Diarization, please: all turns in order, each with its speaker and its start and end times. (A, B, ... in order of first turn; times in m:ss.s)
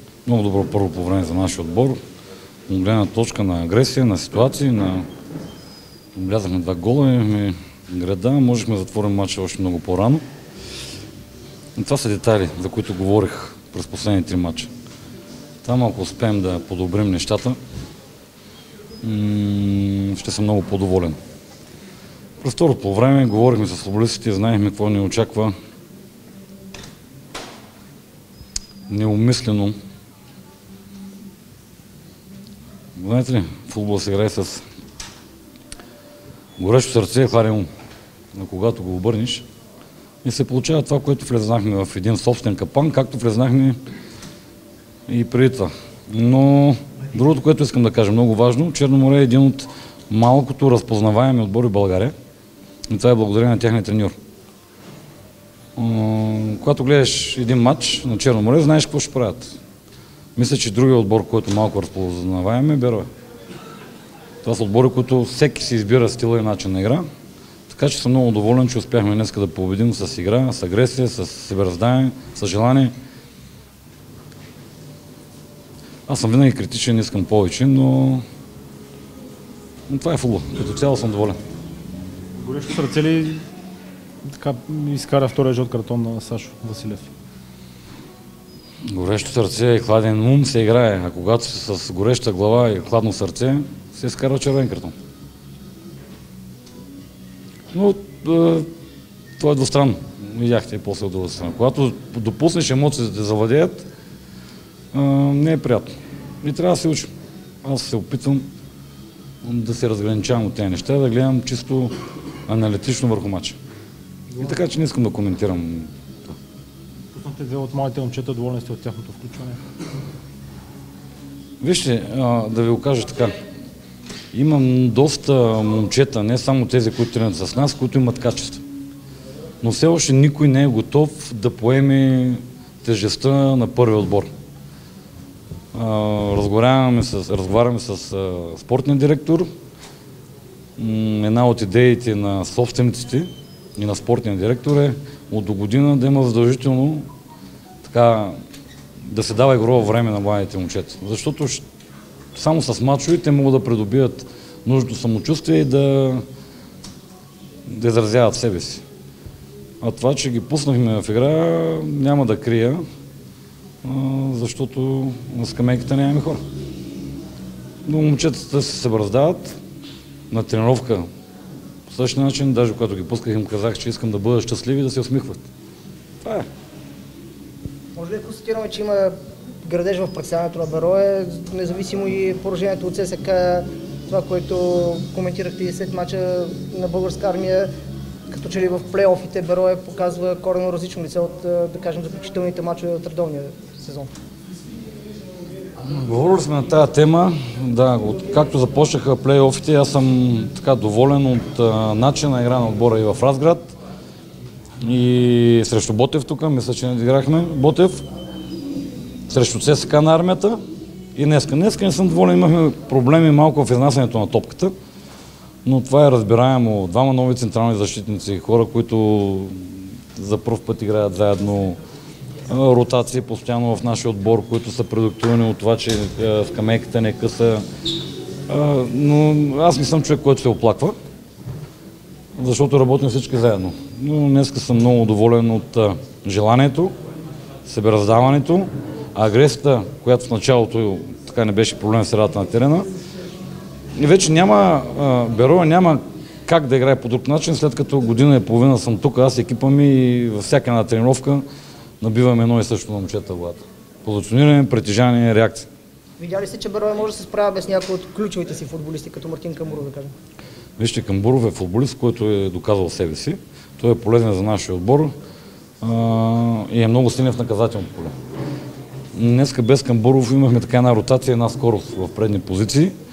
0:00.2-0:02.0 A
0:02.7-0:05.1 A
0:06.2-0:10.2 A
0:11.8-0:14.7 A
0:15.6-0:17.6 A
0:19.0-0:21.2 A
0:22.4-0:25.5 A
0:28.9-0:29.8 A
0:33.0-0:34.6 A
0:36.6-0:37.7 A
0:38.4-0:39.4 A
0:40.2-0:43.8 A
0:45.1-0:52.1 A
0:52.9-0:54.2 A
0:55.8-0:59.6 A
1:00.4-1:03.1 A
1:04.4-1:07.0 A
1:07.7-1:12.9 A
1:16.1-1:18.2 A
1:19.9-1:21.4 A
1:22.4-1:23.4 B
1:24.2-1:27.1 B
1:28.9-1:34.9 A
1:37.7-1:38.7 A
1:39.4-1:43.8 A
1:44.9-1:47.1 A
1:47.6-1:48.4 A
1:49.4-1:51.9 A
1:52.5-1:53.6 A
1:54.3-1:54.6 B
1:54.4-1:55.9 A
1:57.1-1:59.6 B
2:01.6-2:03.4 A
2:04.3-2:08.6 A
2:09.6-2:14.3 A
2:15.7-2:19.5 A
2:20.8-2:27.1 A
2:27.8-2:28.4 A
2:29.1-2:31.6 A
2:32.3-2:36.2 A
2:37.7-2:38.8 A
2:39.8-2:42.8 A
2:43.8-2:46.4 A
2:47.8-2:49.6 A
2:50.3-2:51.1 A
2:51.9-2:55.4 A
2:56.2-2:56.5 A
2:58.0-3:07.7 C
3:08.3-3:14.1 C
3:15.8-3:23.7 A
3:24.8-3:28.0 A
3:29.3-3:30.6 A
3:31.2-3:34.7 A
3:35.6-3:41.8 A
3:42.5-3:47.6 A
3:48.5-3:51.0 A
3:52.4-3:56.9 A
3:57.6-4:02.9 A
4:03.9-4:11.4 A
4:12.0-4:15.7 A
4:16.2-4:20.1 C
4:20.8-4:25.1 A
4:25.8-4:28.1 A
4:29.1-4:32.9 A